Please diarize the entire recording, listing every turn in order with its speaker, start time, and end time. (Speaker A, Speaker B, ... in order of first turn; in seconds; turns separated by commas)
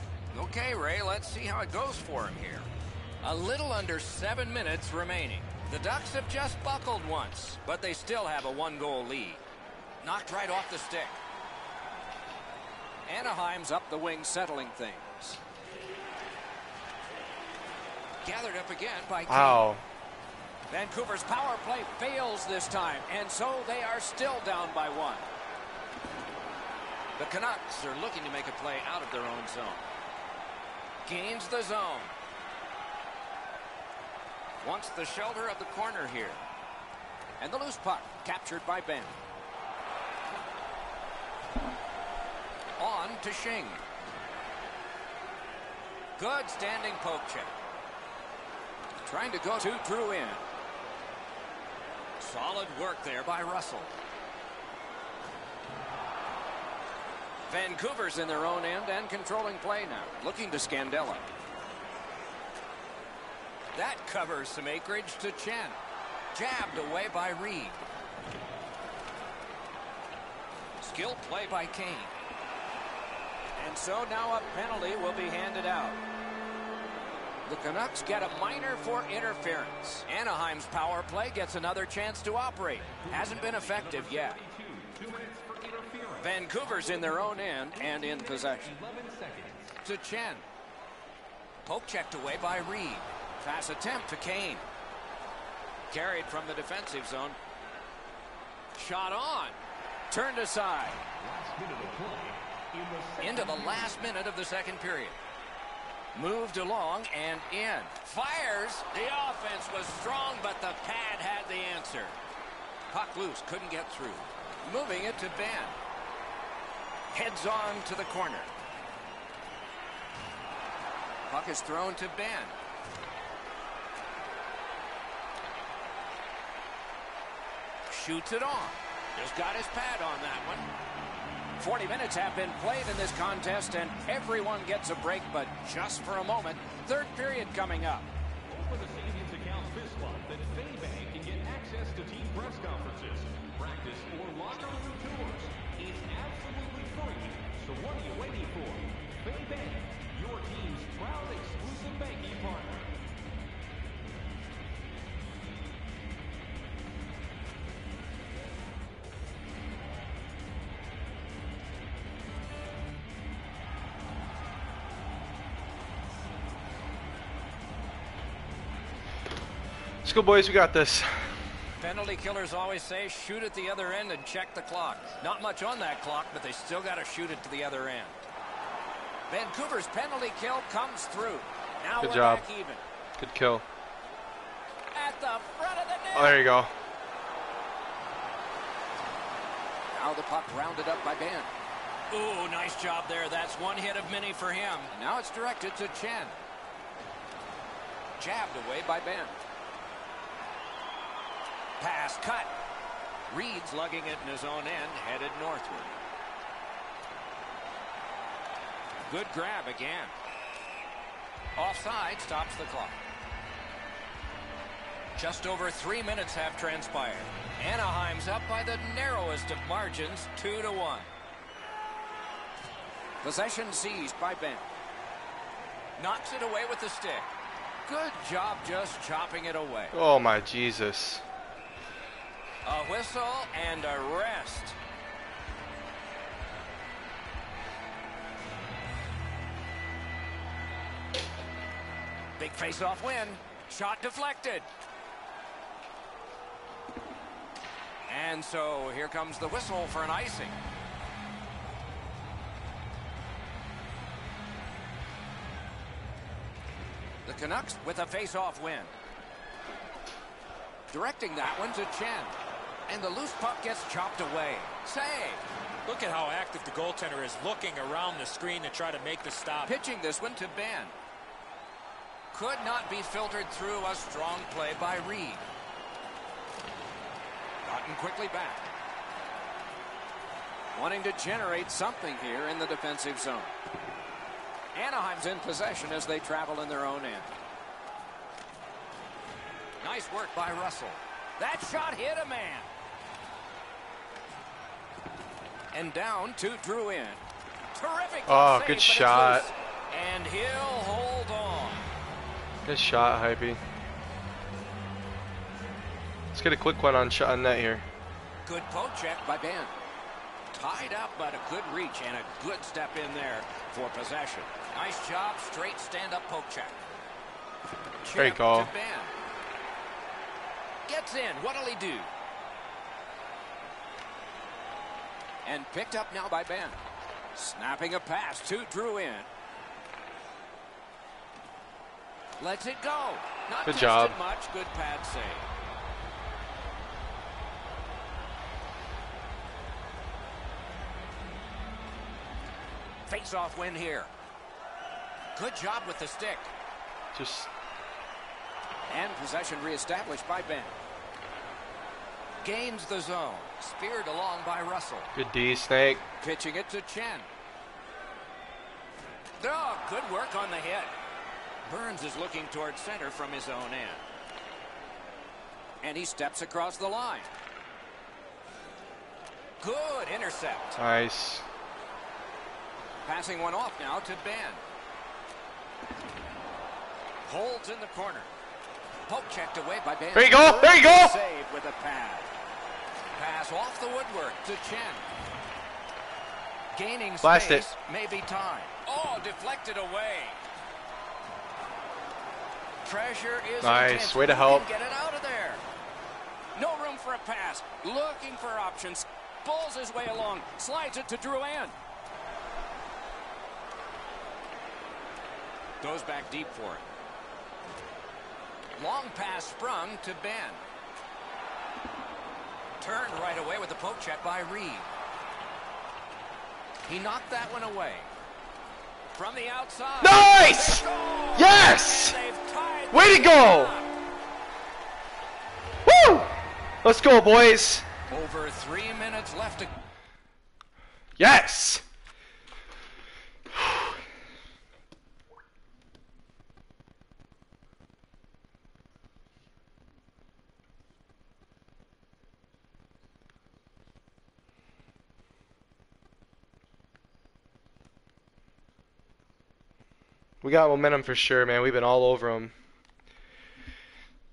Speaker A: 0.3-2.7, Speaker A: 3.2-9.4, Speaker A: 10.0-11.2, Speaker A: 13.1-15.4, Speaker A: 18.2-19.7, Speaker B: 19.3-19.8, Speaker A: 20.7-25.3, Speaker A: 27.2-29.9, Speaker A: 31.1-32.1, Speaker A: 34.6-36.4, Speaker A: 37.4-39.2, Speaker A: 42.8-43.8, Speaker A: 46.2-47.6, Speaker A: 49.0-50.4, Speaker A: 52.2-53.9, Speaker A: 57.5-61.3, Speaker A: 63.8-65.8, Speaker A: 66.3-67.8, Speaker A: 70.8-72.1, Speaker A: 73.6-76.0, Speaker A: 77.5-84.4, Speaker C: 82.8-89.8, Speaker A: 86.2-88.7, Speaker A: 89.8-90.5, Speaker A: 91.7-94.6, Speaker A: 95.9-97.4, Speaker A: 98.8-99.6, Speaker A: 100.1-101.0, Speaker C: 101.2-104.0, Speaker A: 103.2-105.2, Speaker A: 106.1-112.2, Speaker A: 112.9-115.8, Speaker A: 117.1-118.5, Speaker A: 121.3-122.5, Speaker A: 127.9-130.7, Speaker A: 131.6-138.1, Speaker C: 138.5-152.9, Speaker B: 170.0-171.2, Speaker A: 171.8-178.3, Speaker A: 179.3-182.8, Speaker B: 182.0-182.4, Speaker B: 183.2-183.6, Speaker A: 184.9-186.4, Speaker B: 186.1-186.7, Speaker A: 189.9-191.5, Speaker A: 192.1-196.4, Speaker A: 198.2-199.4, Speaker A: 201.8-202.5, Speaker A: 203.3-206.0, Speaker A: 209.1-210.1, Speaker A: 211.6-213.0, Speaker A: 215.2-221.1, Speaker A: 223.2-224.7, Speaker A: 226.0-227.3, Speaker A: 227.9-230.0, Speaker B: 229.9-231.2, Speaker A: 232.7-234.8, Speaker A: 242.4-244.7, Speaker A: 248.1-250.6, Speaker A: 257.3-258.9, Speaker A: 260.9-265.4, Speaker D: 265.9-269.8, Speaker A: 269.6-270.9, Speaker A: 272.3-275.4, Speaker A: 277.6-278.6, Speaker A: 280.8-283.5, Speaker A: 284.8-287.3, Speaker A: 289.8-292.7, Speaker A: 295.7-297.2, Speaker A: 297.7-301.9, Speaker B: 298.3-299.5, Speaker B: 302.7-303.6, Speaker B: 306.3-307.9, Speaker A: 308.4-309.8, Speaker A: 310.5-316.8, Speaker A: 318.0-319.1, Speaker B: 318.1-318.7, Speaker A: 320.9-322.1, Speaker A: 325.4-326.8, Speaker A: 327.4-329.3, Speaker A: 332.4-335.5, Speaker B: 333.7-334.2, Speaker A: 343.1-344.1, Speaker A: 345.4-346.5, Speaker B: 347.1-347.5, Speaker A: 348.9-350.8, Speaker A: 352.4-355.1, Speaker B: 355.1-356.0, Speaker A: 356.2-357.3, Speaker A: 359.4-360.9, Speaker A: 361.6-364.0, Speaker A: 365.8-367.3, Speaker A: 369.6-370.8, Speaker B: 370.8-371.4, Speaker A: 373.1-374.6, Speaker A: 377.3-378.3, Speaker A: 379.1-382.3, Speaker B: 380.1-381.2, Speaker A: 383.1-385.1, Speaker A: 386.7-390.4, Speaker B: 387.2-387.7, Speaker A: 392.8-395.6, Speaker B: 393.6-394.6, Speaker A: 396.6-401.7, Speaker A: 405.8-406.9, Speaker A: 408.8-410.6, Speaker A: 412.8-414.9, Speaker A: 416.9-418.1, Speaker A: 419.1-423.9, Speaker B: 420.0-422.2, Speaker B: 422.9-423.8, Speaker B: 425.9-427.9, Speaker A: 428.1-429.7, Speaker B: 431.2-431.9, Speaker B: 433.6-433.9, Speaker B: 450.4-452.5